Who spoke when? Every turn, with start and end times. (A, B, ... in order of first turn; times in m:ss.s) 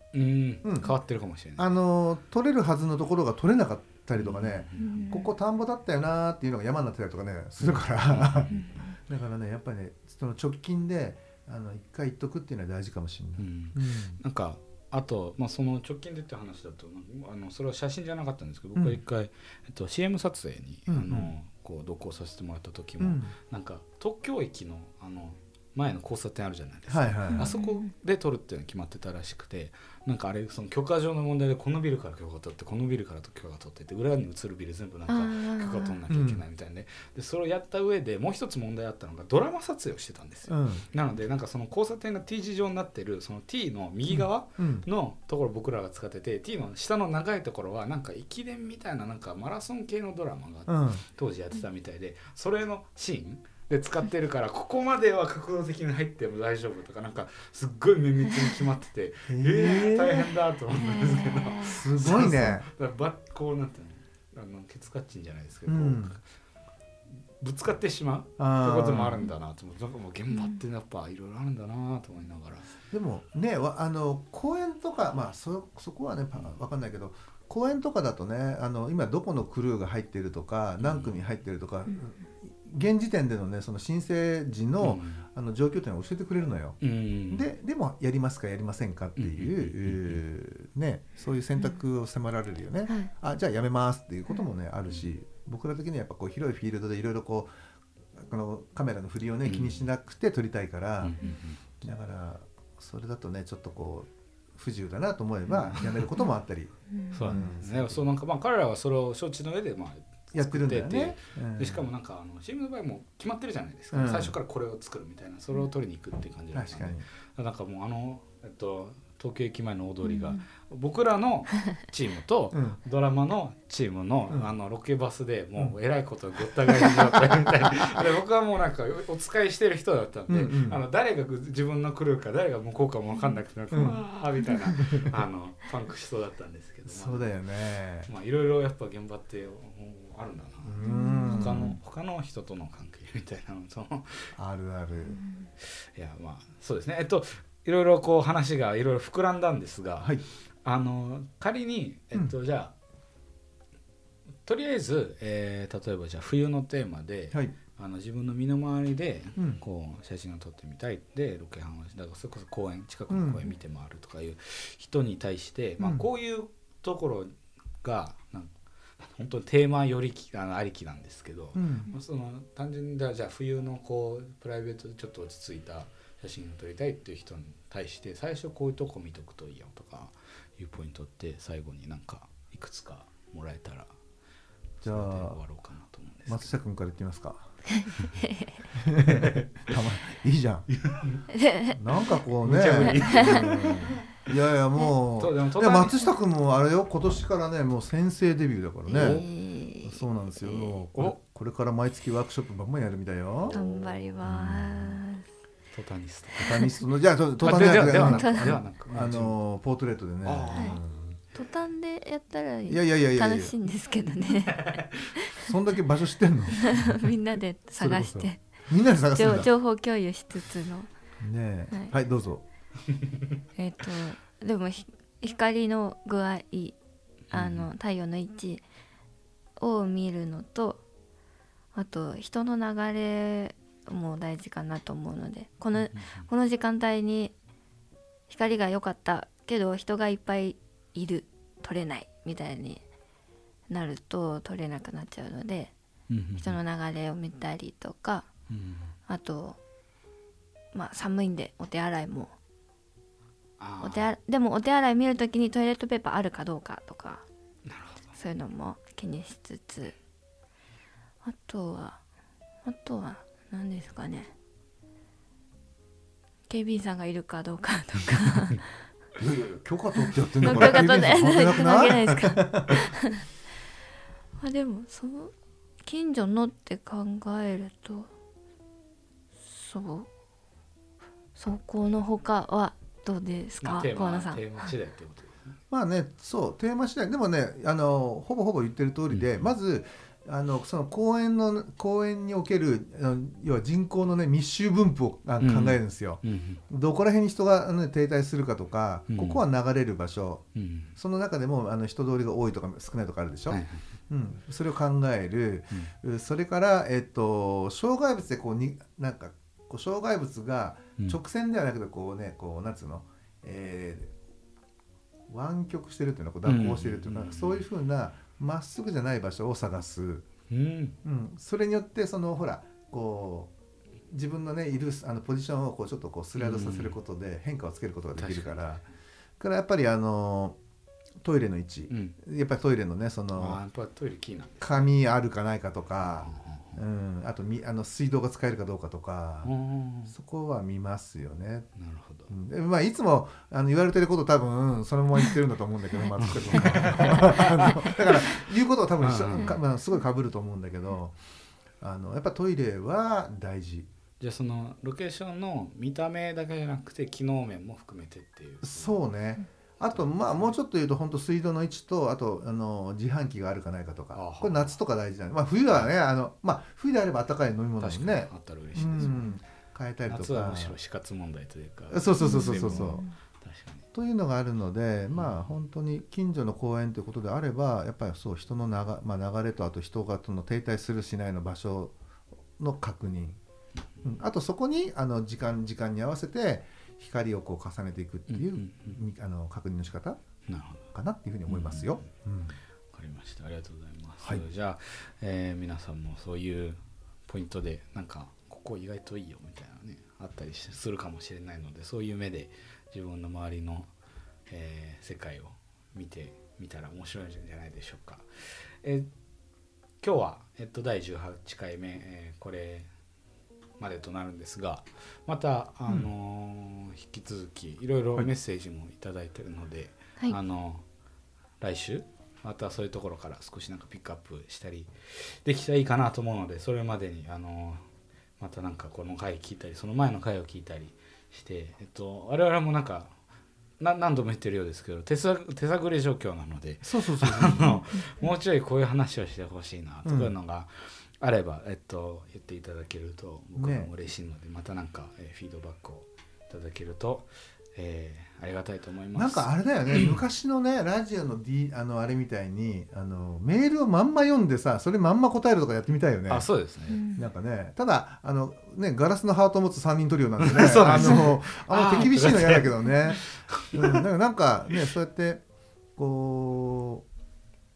0:00.1-0:01.7 A
0:00.6-0:00.9 B
0:01.6-0:14.2 B
0:04.2-0:05.0 A
0:04.8-0:05.3 C
0:08.0-0:08.7 A
0:08.5-0:08.9 C
0:13.4-1:06.2 A
0:18.8-0:19.0 B
0:20.9-0:21.3 B
0:23.0-0:23.3 B
0:26.9-0:27.5 B
0:27.3-0:27.9 C
0:35.1-0:36.0 C
0:36.1-0:36.4 B
0:40.5-0:40.8 B
0:44.1-0:44.9 B
0:50.7-0:51.0 B
0:59.3-1:00.2 B
1:00.7-1:01.8 C
1:01.6-1:02.7 B
1:05.7-1:06.2 B
1:07.4-1:12.7 A
1:08.4-1:09.2 B
1:10.3-1:10.6 C
1:12.9-1:26.8 B
1:20.8-1:21.2 A
1:24.8-1:25.3 A
1:26.8-1:27.5 A
1:27.3-1:37.5 B
1:29.2-1:30.2 A
1:38.2-1:41.2 B
1:39.4-1:39.9 A
1:41.0-1:41.6 A
1:41.8-1:46.7 B
1:45.5-1:46.1 A
1:46.9-1:47.4 C
1:47.1-2:17.3 A
1:47.2-1:48.0 B
1:50.3-1:51.9 B
1:53.9-1:54.4 B
1:56.5-1:57.1 B
2:00.0-2:00.4 C
2:02.5-2:02.8 B
2:10.3-2:10.8 B
2:13.7-2:14.0 B
2:14.7-2:15.1 B
2:16.9-2:18.1 B
2:18.1-2:24.4 A
2:20.6-2:21.8 B
2:20.8-2:21.8 C
2:24.4-2:25.2 B
2:25.2-2:25.5 C
2:25.6-2:32.7 A
2:34.4-3:03.9 A
2:43.1-2:43.4 B
2:45.8-2:46.1 B
2:51.6-2:51.9 B
3:04.8-3:06.5 A
3:04.8-3:05.4 B
3:06.3-3:07.5 B
3:07.7-3:08.6 C
3:08.7-3:10.8 B
3:09.0-3:09.7 A
3:10.7-3:11.2 A
3:11.3-3:11.8 C
3:11.7-3:19.2 B
3:12.4-3:14.0 A
3:12.8-3:13.5 C
3:15.2-3:16.0 A
3:18.9-3:20.8 C
3:18.9-3:19.2 A
3:19.8-3:23.6 B
3:23.4-3:24.7 A
3:23.5-3:25.3 C
3:24.2-3:24.8 B
3:25.7-3:26.7 A
3:26.4-3:31.2 B
3:27.4-3:29.4 A
3:27.4-3:28.6 C
3:30.2-3:30.8 A
3:31.3-3:35.5 C
3:32.7-3:33.5 B
3:35.4-3:37.1 B
3:36.6-3:38.5 C
3:37.8-3:39.5 B
3:39.1-3:40.9 C
3:41.2-3:42.4 B
3:42.9-3:43.2 A
3:43.6-3:46.8 C
3:47.3-3:47.7 A
3:47.3-3:48.6 C
3:49.6-3:50.8 C
3:51.7-3:57.3 C
3:55.8-3:56.3 A
3:58.3-4:02.8 C
4:03.7-4:05.7 C
4:06.1-4:06.6 A
4:06.4-4:08.3 C
4:08.5-4:08.9 A
4:09.1-4:09.6 C
4:10.7-4:12.3 C
4:13.6-4:14.1 A
4:13.8-4:17.2 C
4:17.7-4:18.2 A
4:18.2-4:20.0 C
4:21.2-4:22.0 C
4:22.6-4:24.3 C
4:26.5-4:28.7 C
4:29.2-4:32.8 B
4:30.0-4:33.2 C
4:34.4-4:35.3 C
4:35.8-4:38.1 C
4:39.4-4:40.1 C
4:41.4-4:44.7 C
4:43.6-4:45.6 A
4:45.7-5:00.4 B
4:49.1-4:49.5 A
4:55.4-4:56.6 A
4:59.1-4:59.4 A
5:00.6-5:01.0 A
5:01.0-5:14.1 B
5:03.5-5:03.9 A
5:15.3-5:20.3 B
5:16.4-5:17.6 A
5:20.5-5:21.0 A
5:21.0-5:23.5 B
5:24.1-5:28.8 B
5:26.4-5:27.0 A
5:28.2-5:28.6 A
5:29.4-5:30.6 B
5:31.2-5:33.6 B
5:31.9-5:32.2 A
5:33.4-5:34.9 A
5:34.6-5:39.5 B
5:36.0-5:36.8 A
5:39.4-5:40.2 A
5:40.1-5:41.7 B
5:41.8-5:42.3 A
5:42.3-5:51.2 B
5:46.2-5:49.6 A
5:51.8-5:53.9 B
5:54.2-5:59.1 A
5:58.6-6:10.8 B
5:59.9-6:00.6 A
6:04.1-6:04.8 A
6:07.8-6:09.3 A
6:10.1-6:13.9 A
6:11.9-6:13.0 B
6:12.2-6:13.1 C
6:13.9-6:22.0 B
6:15.1-6:15.5 A
6:22.6-6:23.4 B
6:24.0-6:30.2 B
6:28.3-6:29.0 A
6:30.5-6:30.9 A
6:30.9-6:32.6 B
6:31.5-6:32.1 A
6:32.9-6:43.9 A
6:44.5-6:49.1 A
6:50.0-6:52.9 A
6:53.8-7:00.8 A
7:01.6-7:07.9 A
7:08.4-7:13.2 A
7:13.8-7:30.2 A
7:16.8-7:17.8 B
7:17.6-7:18.1 C
7:20.0-7:20.4 B
7:23.6-7:23.9 B
7:29.2-7:36.5 B
7:36.3-7:37.0 A
7:36.9-7:37.3 C
7:37.2-7:45.4 B
7:40.4-7:44.0 A
7:46.0-7:47.1 B